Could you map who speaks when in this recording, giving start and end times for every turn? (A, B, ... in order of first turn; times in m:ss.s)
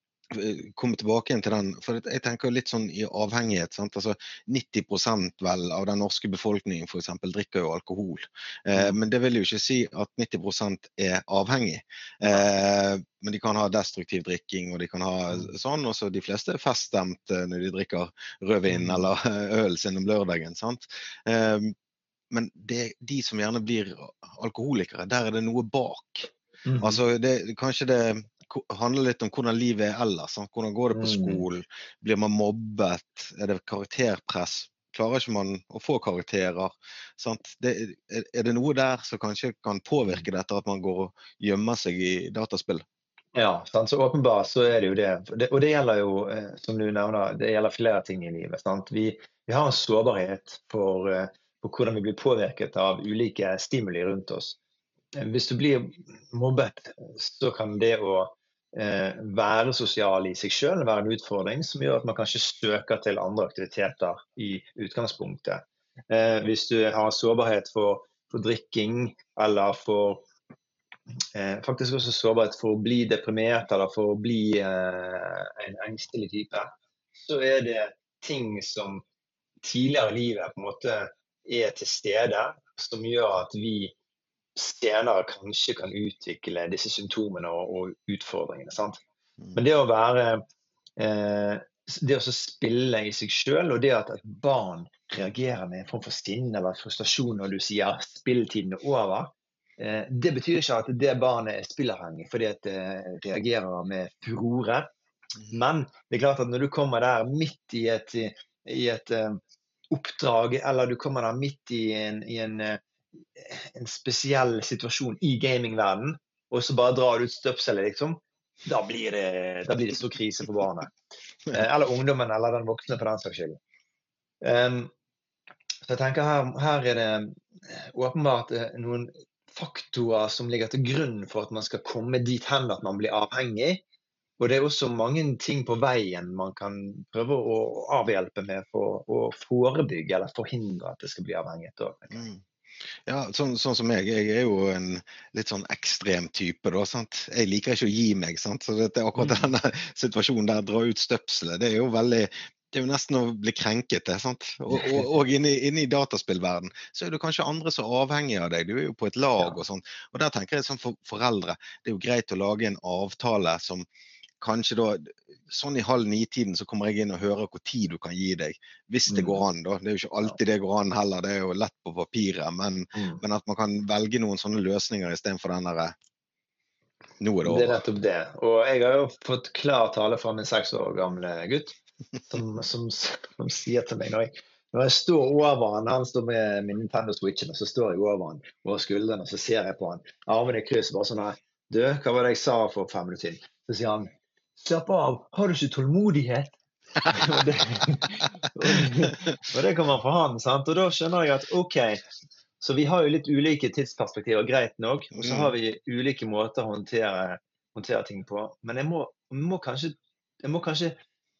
0:00.3-0:21.7 A
0:08.7-0:09.0 B
0:18.7-0:19.1 B
0:22.3-0:42.8 A
0:26.6-0:27.0 B
0:30.9-0:31.4 B
0:43.4-0:54.6 B
0:55.2-1:10.3 B
1:11.3-1:19.0 B
1:19.6-1:23.9 B
1:24.6-1:29.0 B
1:29.5-1:30.4 B
1:31.0-1:44.9 B
1:45.5-1:49.4 B
1:49.9-1:52.8 B
1:53.4-2:01.0 B
2:01.5-2:03.6 B
2:04.4-2:04.9 B
2:05.9-2:13.8 B
2:14.4-2:22.2 B
2:22.1-2:22.4 A
2:23.1-2:43.9 A
2:29.2-2:29.5 B
2:34.7-2:35.1 B
2:44.4-2:56.0 A
2:49.1-2:49.4 B
2:52.9-2:53.2 B
2:57.2-2:57.8 A
2:57.4-3:01.8 B
3:02.3-3:22.0 B
3:22.6-3:31.0 B
3:25.2-3:25.5 A